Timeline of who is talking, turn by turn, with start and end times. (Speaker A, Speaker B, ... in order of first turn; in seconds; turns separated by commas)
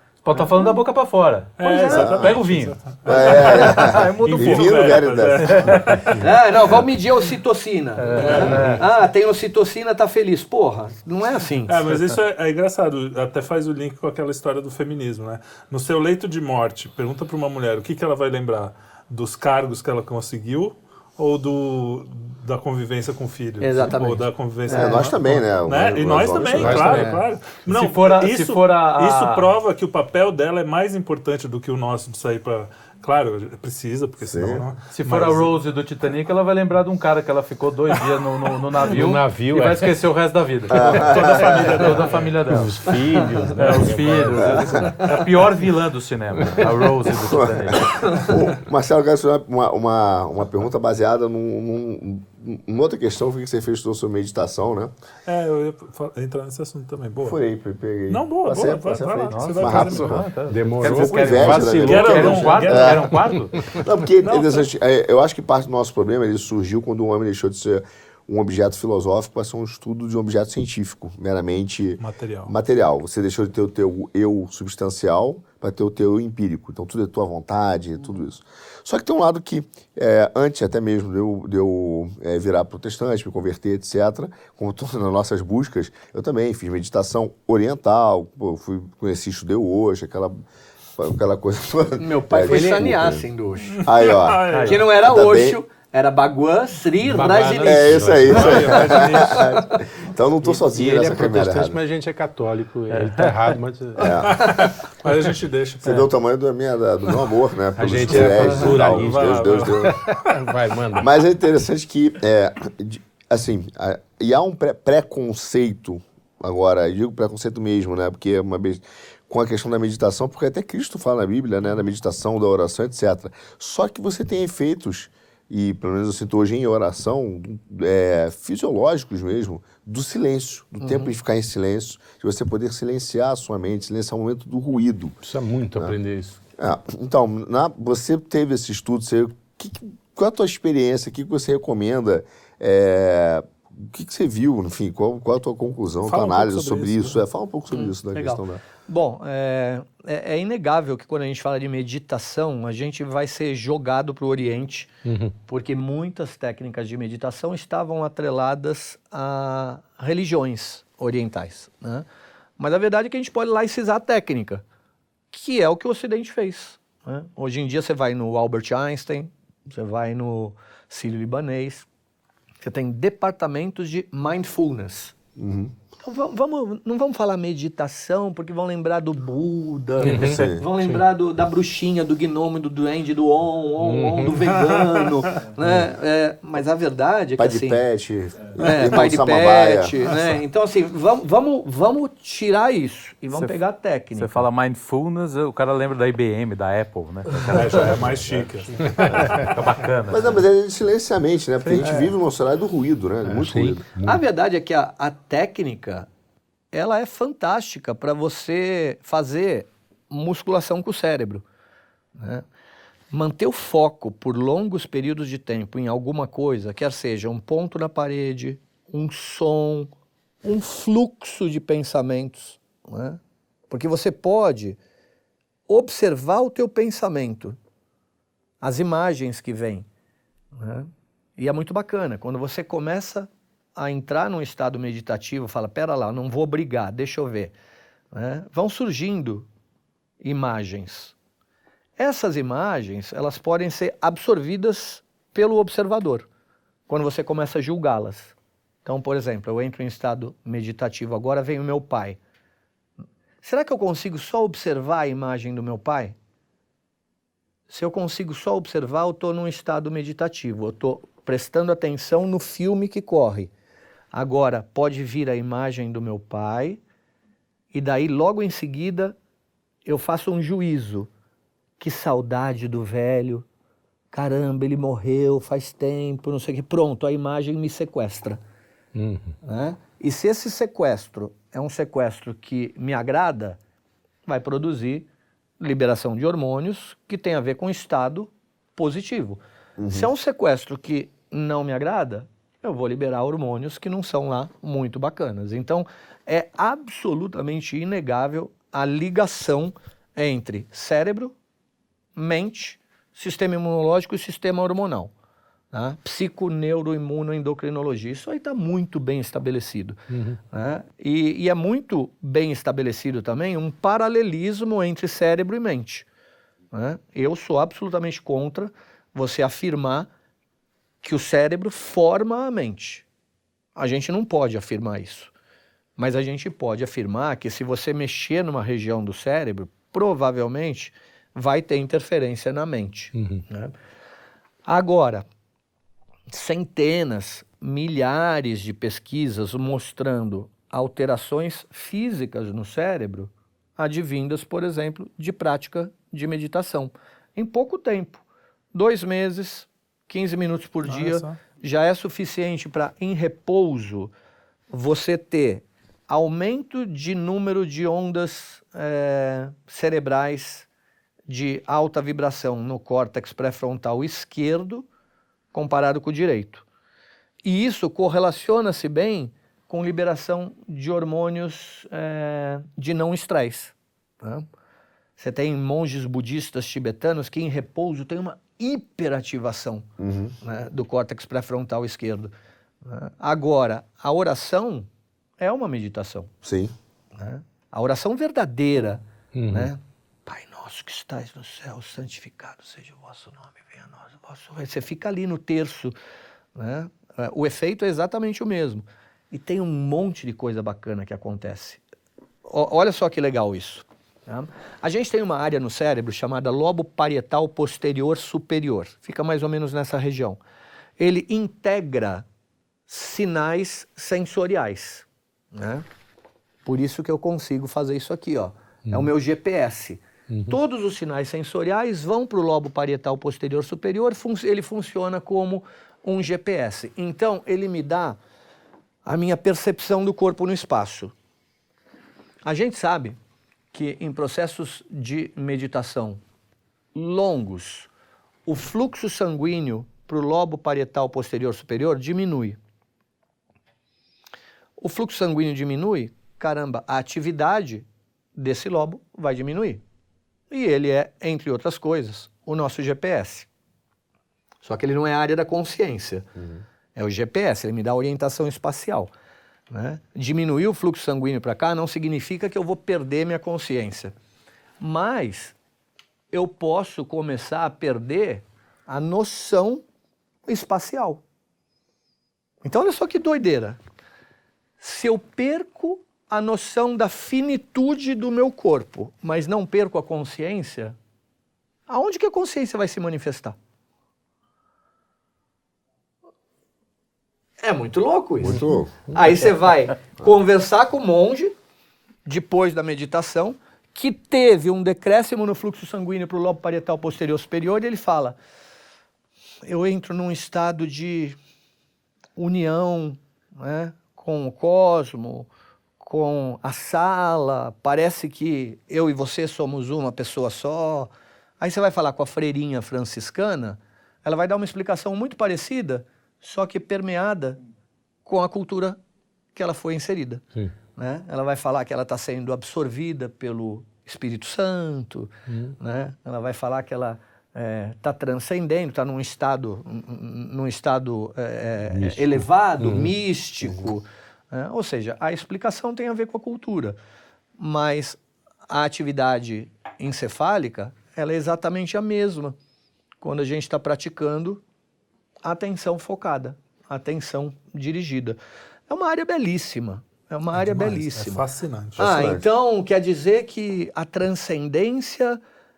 Speaker A: 0.2-6.0, Speaker B: 0.3-0.8, Speaker C: 1.6-6.3, Speaker B: 1.6-2.2, Speaker D: 1.9-2.4, Speaker D: 3.1-5.7, Speaker B: 6.2-11.9, Speaker A: 8.0-8.9, Speaker C: 8.1-8.7, Speaker E: 8.5-8.8, Speaker C: 11.7-35.5, Speaker B: 23.6-25.2, Speaker D: 24.7-27.1, Speaker E: 26.6-27.2, Speaker B: 26.9-27.3, Speaker A: 27.7-29.5, Speaker D: 34.2-34.6, Speaker A: 34.9-43.0, Speaker E: 38.9-39.9, Speaker D: 40.7-41.4, Speaker C: 40.8-42.3, Speaker B: 41.4-41.8, Speaker E: 42.5-44.9, Speaker C: 43.6-45.3, Speaker A: 43.6-48.0, Speaker B: 44.7-45.0, Speaker E: 46.4-46.7, Speaker D: 47.3-54.9, Speaker C: 55.3-57.4, Speaker D: 57.2-63.1, Speaker C: 58.1-60.2, Speaker A: 59.3-63.7, Speaker E: 60.5-62.5, Speaker C: 61.8-63.1, Speaker E: 63.6-63.9, Speaker D: 63.8-90.4, Speaker C: 64.2-64.7, Speaker C: 72.0-72.5, Speaker D: 91.0-93.3, Speaker B: 92.0-93.8, Speaker E: 92.5-92.9, Speaker C: 93.6-94.8, Speaker D: 93.8-95.6, Speaker A: 94.5-94.8, Speaker B: 94.7-99.7, Speaker E: 97.0-98.9, Speaker D: 97.6-101.8, Speaker C: 98.3-99.6, Speaker E: 100.6-104.3, Speaker A: 102.9-103.6, Speaker D: 104.0-104.5, Speaker C: 104.2-106.1, Speaker D: 105.8-110.0, Speaker E: 107.8-111.1, Speaker C: 108.1-110.5, Speaker D: 111.0-135.2, Speaker B: 130.8-131.1, Speaker E: 135.2-136.4, Speaker D: 136.6-148.6, Speaker C: 146.0-147.2, Speaker B: 147.7-154.9, Speaker E: 155.1-155.3, Speaker B: 155.5-162.1, Speaker B: 162.6-164.6, Speaker B: 165.3-171.9, Speaker B: 172.6-175.2, Speaker D: 175.4-175.7, Speaker B: 176.0-187.8, Speaker E: 180.0-181.0, Speaker A: 180.0-180.5, Speaker D: 180.3-180.7, Speaker E: 183.8-184.4, Speaker C: 184.5-185.1, Speaker D: 187.4-189.9, Speaker B: 188.6-194.5, Speaker A: 193.3-193.6, Speaker A: 194.2-198.1, Speaker C: 197.4-199.7, Speaker E: 199.0-199.5, Speaker A: 199.0-200.3, Speaker D: 200.1-203.9, Speaker A: 201.6-202.0, Speaker C: 201.8-202.1, Speaker E: 203.2-204.2, Speaker B: 204.0-206.1, Speaker B: 206.7-211.4, Speaker B: 212.2-212.4, Speaker B: 213.1-219.9, Speaker B: 220.4-223.2, Speaker B: 223.7-224.8, Speaker B: 225.7-227.6, Speaker B: 228.6-229.9, Speaker B: 230.6-237.5, Speaker B: 238.1-239.5, Speaker B: 240.2-241.2, Speaker B: 242.0-246.3, Speaker B: 246.9-248.3, Speaker B: 248.8-252.2, Speaker B: 253.4-256.2, Speaker B: 257.7-263.5, Speaker B: 264.1-266.8, Speaker B: 267.7-269.2, Speaker B: 269.9-271.1, Speaker B: 271.8-273.5, Speaker B: 274.1-278.4, Speaker E: 278.9-279.4, Speaker B: 279.4-283.6, Speaker B: 284.3-285.1, Speaker B: 285.6-301.4, Speaker D: 289.8-290.1, Speaker B: 302.1-305.1, Speaker B: 305.7-310.0, Speaker E: 310.1-310.4, Speaker B: 310.5-316.1, Speaker B: 316.7-320.1, Speaker B: 321.0-323.1, Speaker B: 323.8-325.3, Speaker B: 326.0-333.7, Speaker E: 333.1-333.5, Speaker B: 334.7-335.3, Speaker B: 336.3-348.2, Speaker B: 348.7-354.1, Speaker C: 350.9-351.4, Speaker B: 354.7-360.7, Speaker B: 361.3-364.9, Speaker B: 365.5-366.6, Speaker B: 367.4-374.5, Speaker B: 375.2-379.9, Speaker D: 380.0-380.4, Speaker B: 380.4-382.3, Speaker B: 382.8-386.3, Speaker D: 386.4-386.7, Speaker B: 387.2-395.9, Speaker E: 389.3-389.7, Speaker B: 396.6-401.8, Speaker B: 402.5-410.4, Speaker B: 411.0-412.2, Speaker B: 412.9-415.9, Speaker B: 416.6-428.2, Speaker E: 420.3-420.6, Speaker B: 429.1-431.1, Speaker B: 432.4-433.2, Speaker B: 433.7-436.2, Speaker B: 436.9-437.9, Speaker B: 438.5-442.6, Speaker B: 444.8-449.8, Speaker B: 450.5-453.5, Speaker B: 454.6-456.3, Speaker B: 456.9-459.1, Speaker B: 459.7-464.1, Speaker B: 464.8-465.6, Speaker B: 466.3-469.8, Speaker B: 470.5-471.2, Speaker B: 472.6-473.8, Speaker B: 474.8-481.0, Speaker B: 481.9-483.6, Speaker B: 487.6-491.5, Speaker D: 488.4-488.9, Speaker E: 488.4-489.2, Speaker B: 492.2-498.4, Speaker B: 499.6-501.4, Speaker B: 502.4-505.5, Speaker B: 506.0-517.6, Speaker B: 518.2-519.0, Speaker B: 519.5-537.0, Speaker E: 525.5-525.8, Speaker E: 531.9-533.9, Speaker B: 537.6-542.6, Speaker B: 543.2-544.6, Speaker B: 545.4-548.4, Speaker B: 548.9-551.4, Speaker C: 550.5-552.0, Speaker D: 552.0-552.5, Speaker B: 552.0-555.4